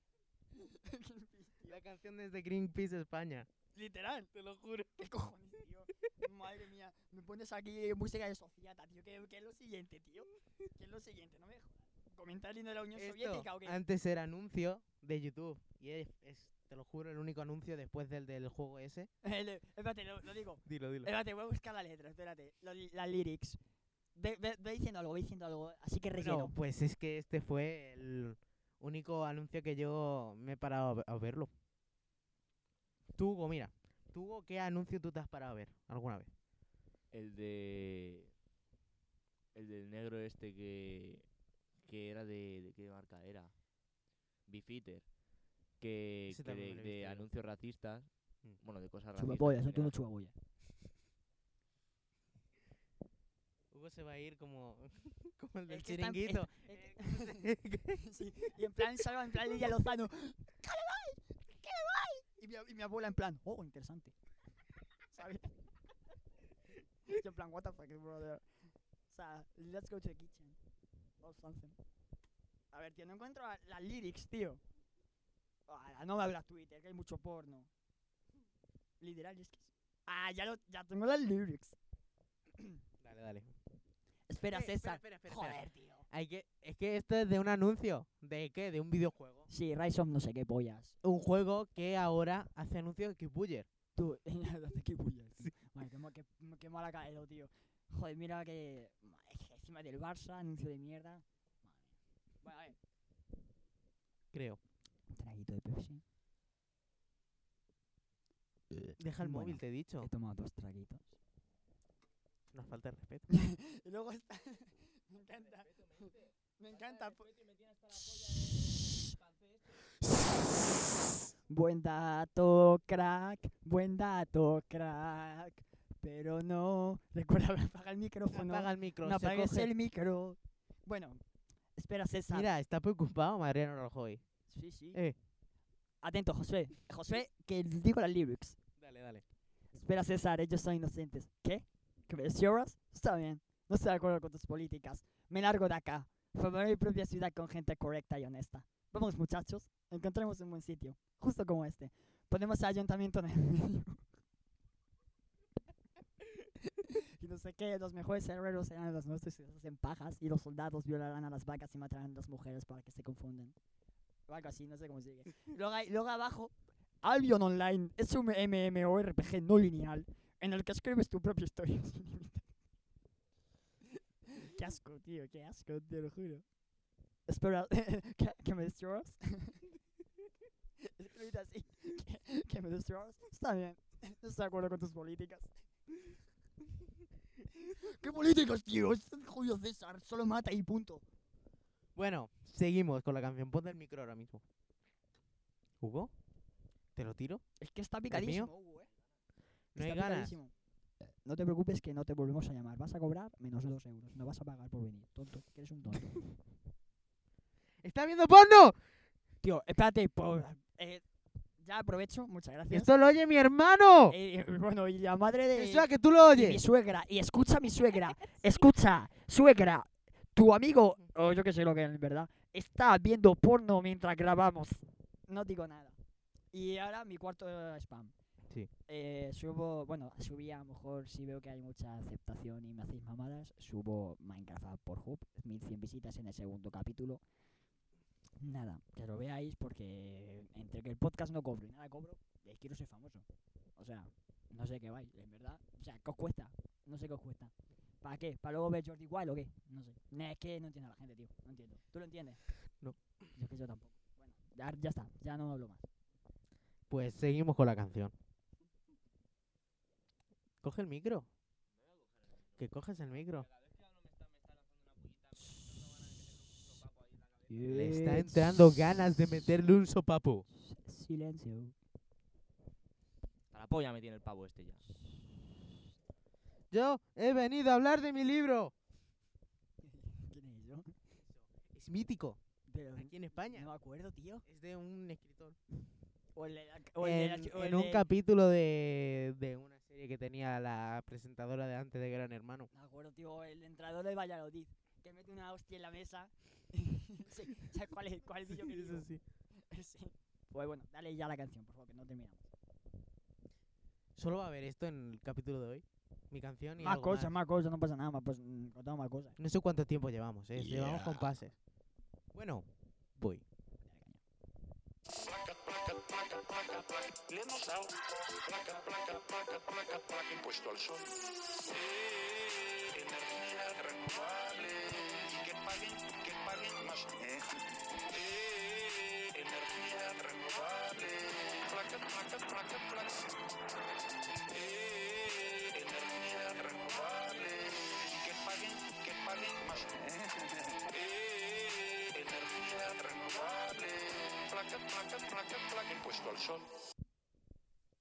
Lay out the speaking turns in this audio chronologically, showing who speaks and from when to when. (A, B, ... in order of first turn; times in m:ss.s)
0:00.5-0:01.8 A
0:01.6-0:03.5 B
0:03.7-0:04.3 A
0:04.3-0:05.1 B
0:05.0-0:13.8 A
0:13.0-0:19.1 B
0:19.2-0:23.6 A
0:20.6-0:21.1 B
0:24.1-0:26.5 A
0:26.2-0:31.5 B
0:33.2-0:36.3 B
0:37.1-0:38.3 C
0:39.5-0:41.3 C
0:41.8-0:43.6 C
0:44.4-0:45.2 C
0:45.7-0:49.9 C
0:46.3-0:47.3 B
0:49.1-0:50.3 A
0:53.7-0:58.0 B
0:55.7-1:04.1 A
1:05.1-1:05.5 A
1:07.0-1:08.4 A
1:09.1-1:10.6 A
1:11.2-1:11.8 A
1:12.7-1:14.6 A
1:15.7-1:17.7 A
1:19.0-1:21.8 A
1:23.0-1:23.5 B
1:24.3-1:26.0 A
1:24.5-1:29.5 B
1:29.5-1:30.9 A
1:31.0-1:33.7 B
1:33.9-1:41.9 A
1:42.4-1:42.8 A
1:44.3-1:44.6 B
1:45.1-1:46.0 A
1:49.0-1:50.1 B
1:49.2-1:51.1 A
1:52.5-1:53.3 B
1:53.3-1:59.0 A
2:01.5-2:11.2 A
2:08.3-2:09.7 B
2:11.8-2:12.5 A
2:12.3-2:14.2 B
2:14.5-2:15.0 A
2:16.0-2:18.6 A
2:18.8-2:19.2 B
2:19.7-2:34.0 A
2:36.7-2:43.5 A
2:44.3-2:52.4 A
2:54.3-2:56.4 A
2:57.3-2:59.6 A
3:00.8-3:05.5 A
3:07.5-3:11.0 A
3:11.9-3:14.4 B
3:15.8-3:16.1 B
3:16.9-3:17.4 B
3:17.6-3:18.9 A
3:18.1-3:18.5 B
3:19.7-3:20.4 B
3:19.8-3:20.5 A
3:21.2-3:26.2 A
3:27.8-3:28.8 B
3:29.4-3:31.0 A
3:31.6-3:32.9 A
3:32.7-3:34.2 B
3:34.1-3:46.0 A
3:35.5-3:36.6 B
3:46.5-3:48.1 A
3:48.9-3:57.2 A
3:58.4-4:12.4 A
4:13.3-4:15.8 A
4:16.9-4:18.1 B
4:20.6-4:21.3 B
4:22.6-4:23.5 B
4:24.0-4:27.4 C
4:27.5-4:28.7 A
4:27.7-4:30.4 B
4:30.6-4:31.7 A
4:33.5-4:34.8 C
4:36.7-4:38.7 B
4:39.8-4:40.9 A
4:41.3-4:42.4 B
4:42.7-4:44.4 A
4:43.0-4:43.7 B
4:44.4-4:45.6 B
4:46.3-4:48.0 A
4:47.0-4:52.7 B
4:52.7-5:02.4 A
4:58.5-4:59.2 B
5:04.2-5:07.3 B
5:06.8-5:09.4 A
5:09.4-5:11.6 B
5:10.6-5:11.3 A
5:12.3-5:13.4 B
5:13.9-5:14.2 A
5:15.2-5:33.3 D
5:34.5-5:46.7 D